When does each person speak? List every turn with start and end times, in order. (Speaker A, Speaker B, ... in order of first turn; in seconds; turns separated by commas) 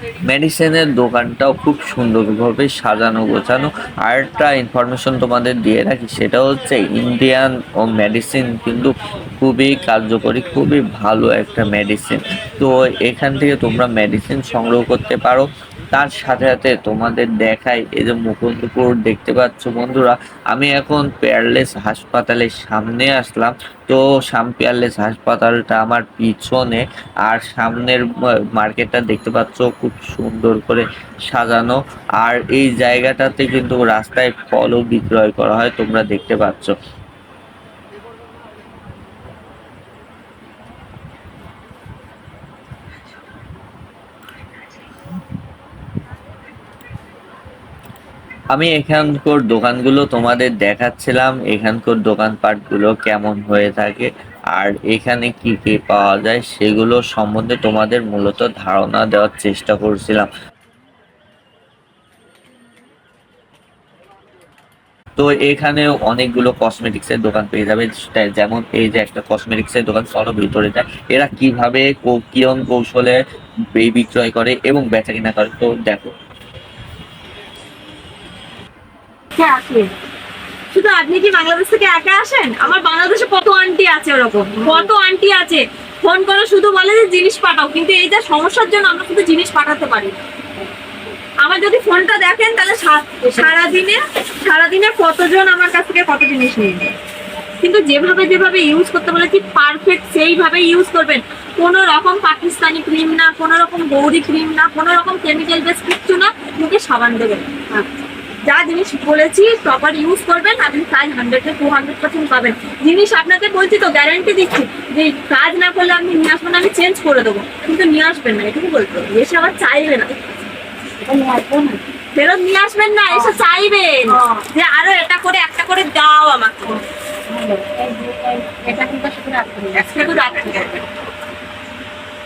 Speaker A: 0.2-36.7, Speaker A: 48.5-60.3, Speaker A: 65.2-73.2, Speaker A: 73.8-76.1, Speaker B: 79.4-79.9, Speaker B: 80.7-90.2, Speaker B: 91.4-97.0, Speaker B: 97.6-107.9, Speaker B: 108.5-120.1, Speaker C: 121.0-121.8, Speaker B: 122.1-126.8, Speaker C: 124.1-124.4, Speaker C: 127.3-130.1, Speaker B: 129.7-130.8